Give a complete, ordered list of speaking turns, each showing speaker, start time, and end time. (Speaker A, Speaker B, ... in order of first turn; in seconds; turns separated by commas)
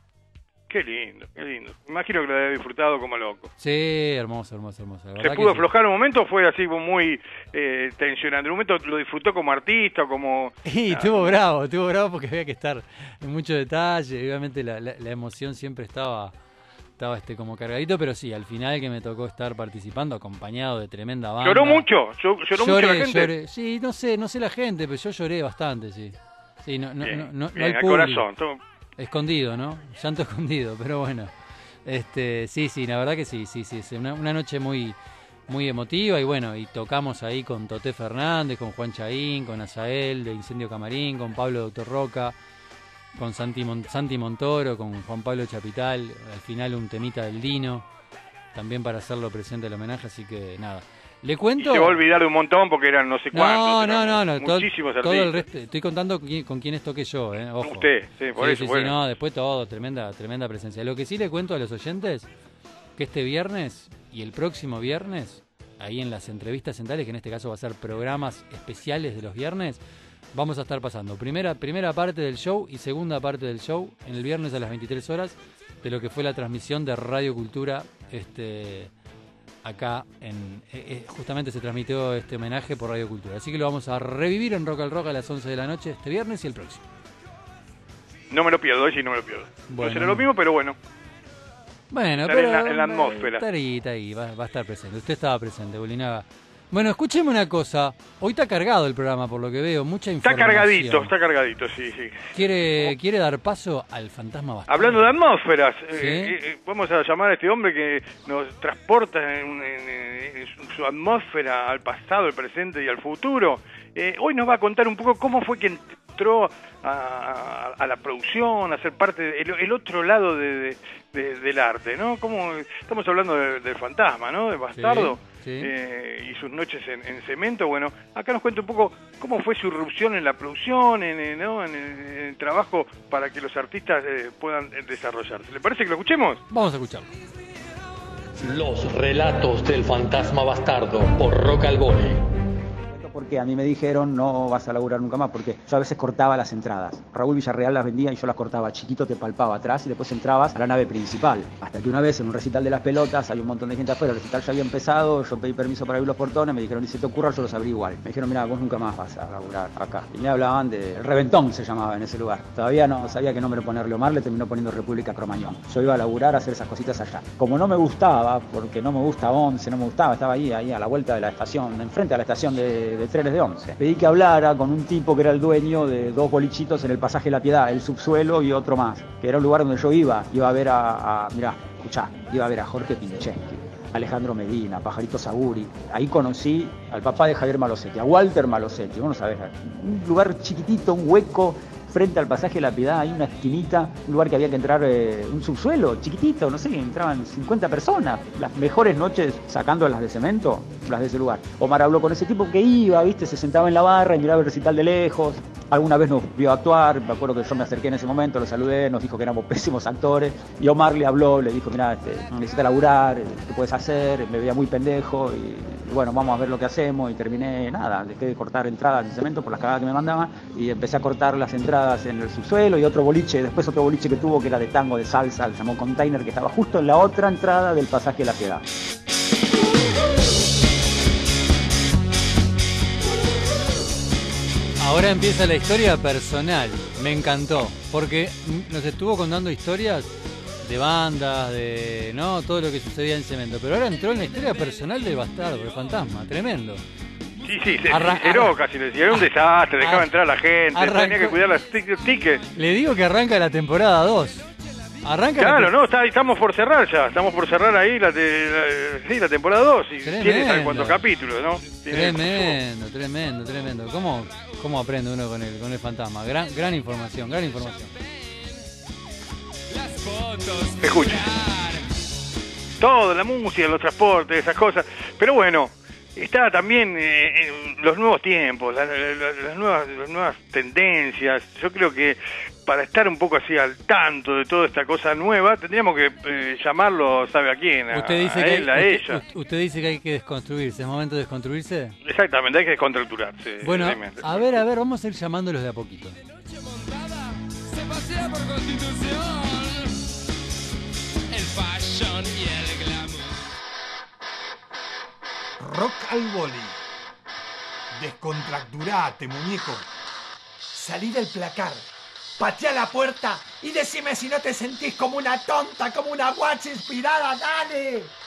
Speaker A: 0.7-3.5, Speaker B: 3.6-5.7, Speaker A: 5.2-11.4, Speaker B: 10.6-16.3, Speaker B: 17.0-21.9, Speaker A: 21.4-23.3, Speaker B: 22.5-28.2, Speaker A: 27.0-28.6, Speaker B: 29.0-31.3, Speaker B: 31.8-35.0, Speaker B: 35.5-42.4, Speaker B: 43.1-47.8, Speaker B: 48.5-52.0, Speaker A: 51.6-55.4, Speaker B: 53.3-62.3, Speaker A: 57.6-59.0, Speaker B: 63.0-69.8, Speaker B: 70.3-78.9, Speaker B: 79.6-86.8, Speaker A: 88.3-90.8, Speaker B: 89.7-90.3, Speaker B: 91.9-101.1, Speaker A: 92.2-93.4, Speaker A: 100.2-102.9, Speaker B: 102.3-105.1, Speaker A: 104.7-136.4, Speaker B: 106.0-106.3, Speaker B: 124.7-125.7, Speaker B: 136.5-137.1, Speaker C: 138.5-142.2, Speaker D: 142.9-228.7, Speaker B: 234.8-246.8, Speaker A: 247.4-252.5, Speaker B: 247.9-248.5, Speaker B: 249.8-250.1, Speaker B: 250.7-251.4, Speaker B: 252.5-254.5, Speaker B: 255.0-255.7, Speaker A: 255.4-262.6, Speaker B: 260.0-261.0, Speaker B: 261.9-267.9, Speaker E: 269.7-271.9, Speaker A: 270.8-271.3, Speaker A: 272.8-289.2, Speaker B: 287.9-292.0, Speaker A: 292.0-294.5, Speaker B: 293.6-296.2, Speaker E: 296.3-300.1, Speaker E: 301.3-303.6, Speaker F: 305.6-306.8, Speaker F: 307.9-309.9, Speaker F: 310.7-311.8, Speaker F: 312.4-317.2, Speaker F: 317.7-318.1